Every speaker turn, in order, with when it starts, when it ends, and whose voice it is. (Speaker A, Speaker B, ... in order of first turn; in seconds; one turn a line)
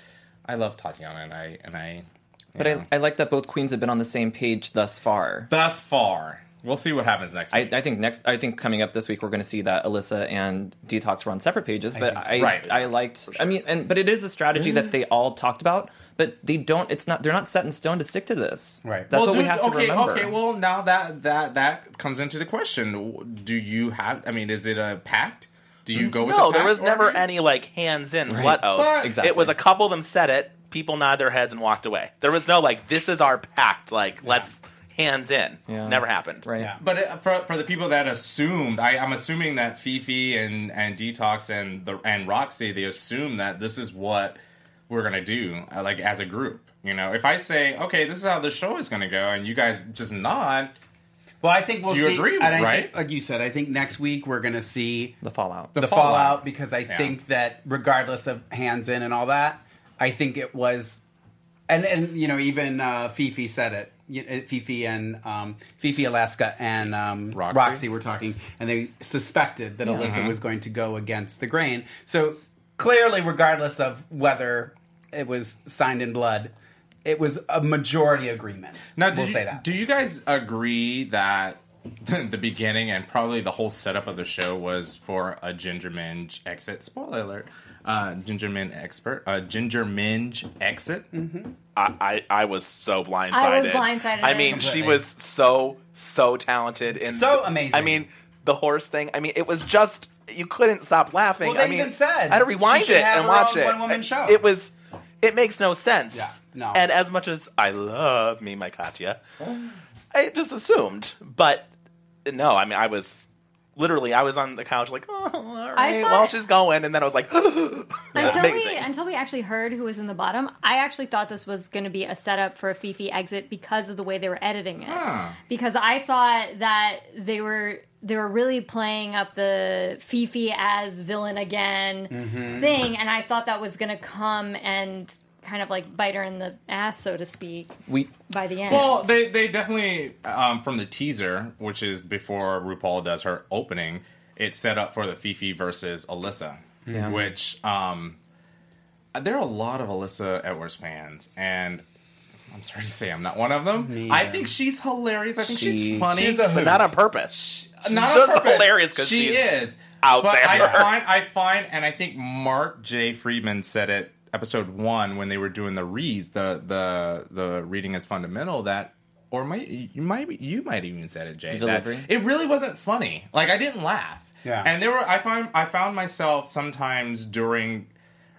Speaker A: 0.5-2.9
Speaker B: 2.6-5.5
Speaker A: 5.5-7.8
Speaker B: 7.5-20.4
Speaker C: 11.9-12.6
Speaker A: 12.4-12.9
Speaker C: 18.8-19.1
Speaker A: 19.1-27.2
Speaker D: 26.0-36.5
Speaker B: 28.3-29.5
Speaker A: 28.7-29.2
Speaker C: 34.2-34.5
Speaker B: 35.7-36.8
Speaker A: 36.8-50.7
Speaker C: 51.4-55.2
Speaker A: 51.9-52.9
Speaker B: 55.2-56.1
Speaker A: 55.7-57.1
Speaker C: 55.8-61.0
Speaker C: 61.7-76.5
Speaker A: 67.3-67.8
Speaker A: 70.0-70.4
Speaker C: 77.0-79.7
Speaker A: 79.0-91.1
Speaker C: 91.1-91.5
Speaker D: 91.8-109.2
Speaker E: 93.3-94.7
Speaker C: 94.4-95.0
Speaker C: 96.9-98.1
Speaker C: 101.4-104.4
Speaker C: 106.1-106.8
Speaker D: 110.1-111.7
Speaker D: 112.2-118.9
Speaker E: 115.8-116.3
Speaker E: 118.1-137.8
Speaker A: 124.9-125.4
Speaker C: 132.1-132.8
Speaker B: 137.9-138.1
Speaker E: 138.3-139.1
Speaker A: 138.7-148.2
Speaker C: 146.9-147.3
Speaker A: 149.1-151.8
Speaker A: 152.5-156.7
Speaker C: 153.7-154.6
Speaker B: 155.5-156.2
Speaker C: 156.0-156.9
Speaker D: 156.4-161.0
Speaker A: 157.4-177.9
Speaker B: 171.5-172.1
Speaker C: 174.4-174.7